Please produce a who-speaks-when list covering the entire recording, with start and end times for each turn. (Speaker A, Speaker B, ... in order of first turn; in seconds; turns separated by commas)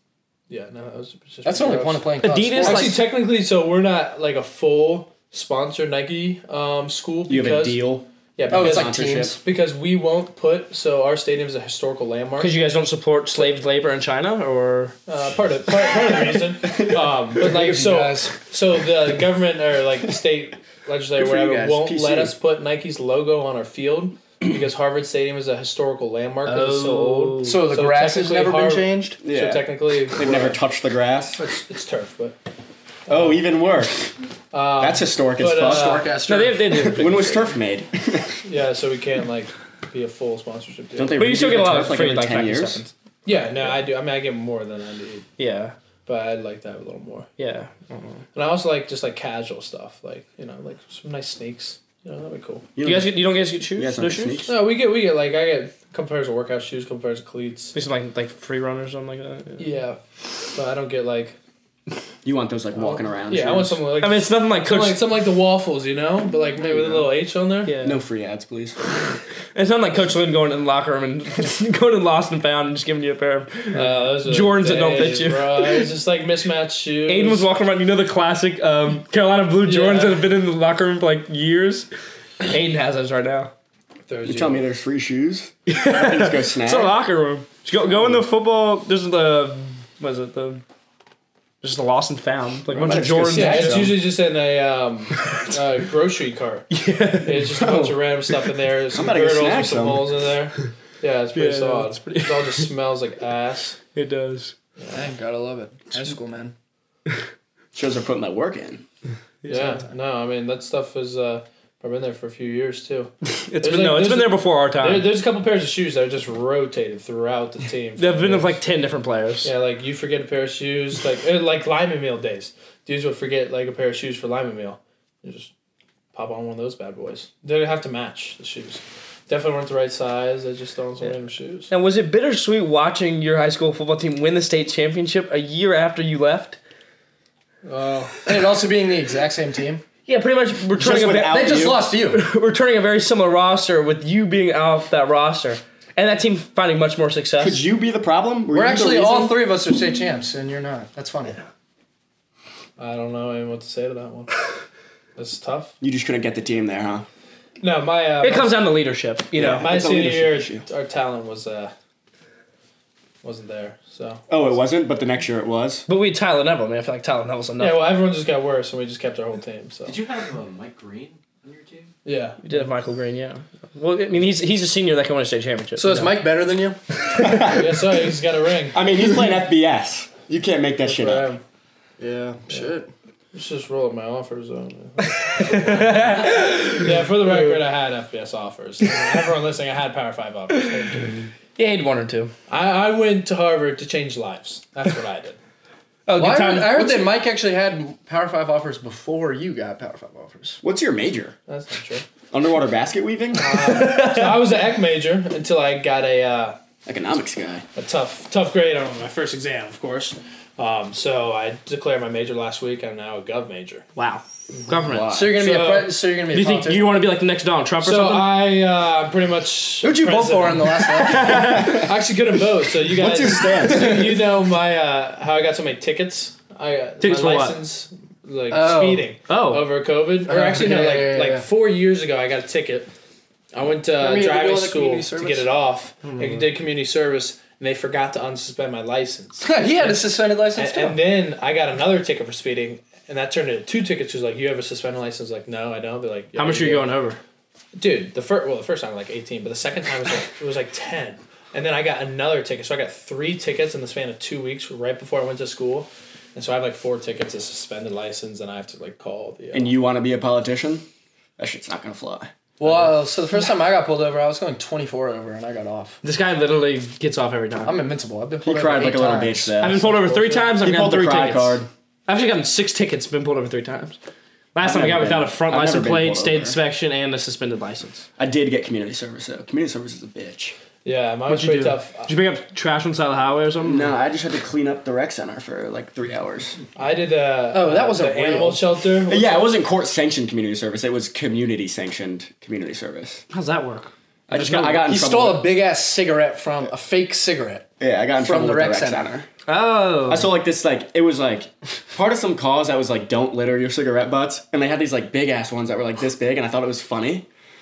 Speaker A: 0.5-12.5, Speaker B: 1.4-3.0, Speaker C: 2.2-3.0, Speaker D: 7.3-9.4, Speaker B: 8.5-9.4, Speaker C: 12.4-15.0, Speaker A: 15.1-30.6, Speaker B: 17.4-18.3, Speaker D: 21.2-22.3, Speaker C: 26.4-27.6, Speaker B: 27.4-29.2, Speaker D: 29.2-31.4, Speaker A: 31.4-32.4, Speaker A: 33.1-33.4, Speaker D: 33.1-34.1, Speaker A: 34.5-36.1, Speaker D: 34.8-36.1, Speaker B: 35.6-37.0, Speaker C: 36.2-37.5, Speaker D: 36.8-38.4, Speaker A: 38.4-41.3, Speaker D: 41.0-42.8, Speaker C: 41.2-42.9, Speaker A: 43.2-45.3, Speaker C: 45.4-45.7, Speaker A: 46.0-47.3, Speaker C: 47.4-48.0, Speaker A: 48.3-52.6, Speaker D: 52.8-53.1, Speaker C: 52.8-54.5, Speaker D: 53.8-54.6, Speaker A: 54.5-57.7, Speaker C: 57.7-59.6, Speaker A: 59.6-60.0, Speaker A: 60.5-61.4, Speaker D: 62.2-63.8, Speaker A: 62.8-67.7, Speaker C: 64.0-65.0, Speaker B: 66.6-67.1, Speaker C: 67.7-68.0, Speaker D: 67.8-68.8, Speaker C: 69.5-75.9, Speaker A: 73.7-77.5, Speaker C: 77.1-81.9, Speaker A: 79.6-80.3, Speaker C: 82.4-83.5, Speaker A: 84.1-84.7, Speaker D: 84.2-86.9, Speaker C: 85.7-90.6, Speaker C: 91.6-94.0, Speaker D: 92.7-94.0, Speaker A: 93.3-96.7, Speaker C: 96.7-97.5, Speaker A: 97.2-103.8, Speaker D: 97.5-98.0, Speaker D: 98.9-100.2, Speaker C: 101.3-102.7, Speaker C: 103.9-104.5, Speaker B: 104.9-106.5, Speaker D: 107.7-108.8, Speaker C: 109.4-109.8, Speaker A: 109.5-118.6, Speaker C: 113.5-115.1, Speaker C: 118.0-119.5, Speaker A: 119.4-125.5, Speaker A: 126.1-131.7, Speaker C: 131.7-136.6, Speaker A: 137.6-138.2, Speaker B: 138.2-139.8, Speaker C: 140.1-147.6, Speaker D: 140.8-141.8, Speaker B: 141.1-142.2, Speaker D: 147.4-149.4, Speaker B: 148.5-151.4, Speaker A: 152.8-154.3, Speaker A: 155.2-155.7, Speaker D: 155.8-157.1, Speaker A: 157.6-158.6, Speaker C: 158.2-159.8, Speaker D: 159.3-160.6, Speaker A: 159.5-161.7, Speaker A: 163.2-164.2, Speaker D: 164.3-165.8, Speaker C: 165.9-167.8, Speaker A: 167.6-169.9, Speaker E: 169.8-171.9, Speaker A: 172.0-172.4, Speaker C: 172.4-176.1, Speaker B: 175.8-176.8, Speaker D: 177.2-177.8, Speaker A: 177.5-178.8, Speaker D: 178.7-181.3, Speaker B: 180.8-181.3, Speaker B: 182.0-182.9, Speaker A: 183.3-191.3, Speaker C: 185.4-186.9, Speaker C: 191.6-192.3, Speaker A: 192.5-195.4, Speaker C: 196.1-197.2, Speaker B: 196.2-200.6, Speaker D: 200.6-201.3, Speaker A: 201.5-202.0, Speaker D: 202.3-203.8, Speaker A: 203.3-206.6, Speaker C: 203.7-204.4, Speaker D: 206.8-207.6, Speaker A: 207.8-213.8, Speaker C: 213.9-215.5, Speaker D: 214.8-215.3, Speaker B: 215.1-217.0, Speaker A: 215.3-215.9, Speaker C: 216.3-218.4, Speaker A: 217.8-232.9, Speaker B: 219.8-221.6, Speaker D: 221.0-222.0, Speaker D: 222.8-224.2, Speaker C: 227.0-227.6, Speaker B: 228.5-229.1, Speaker C: 229.3-229.7, Speaker B: 230.2-231.4, Speaker A: 233.5-246.9, Speaker B: 234.0-235.5, Speaker B: 236.0-236.4, Speaker B: 239.4-241.0, Speaker C: 246.3-247.2, Speaker A: 247.7-259.7, Speaker D: 259.5-260.8, Speaker D: 261.4-262.3, Speaker B: 262.6-266.0, Speaker C: 266.0-267.8, Speaker B: 267.6-269.8, Speaker D: 268.4-269.9, Speaker C: 269.6-274.0, Speaker D: 270.5-271.7, Speaker C: 274.5-278.1, Speaker D: 274.6-276.6, Speaker D: 278.2-280.6, Speaker A: 280.8-282.1, Speaker C: 281.3-283.9, Speaker D: 283.6-286.6, Speaker A: 286.7-289.5, Speaker B: 287.5-288.6, Speaker D: 289.1-293.2, Speaker C: 293.3-294.8, Speaker D: 294.3-295.5, Speaker B: 294.4-299.0, Speaker D: 297.8-299.3, Speaker C: 299.5-300.3, Speaker D: 300.1-307.3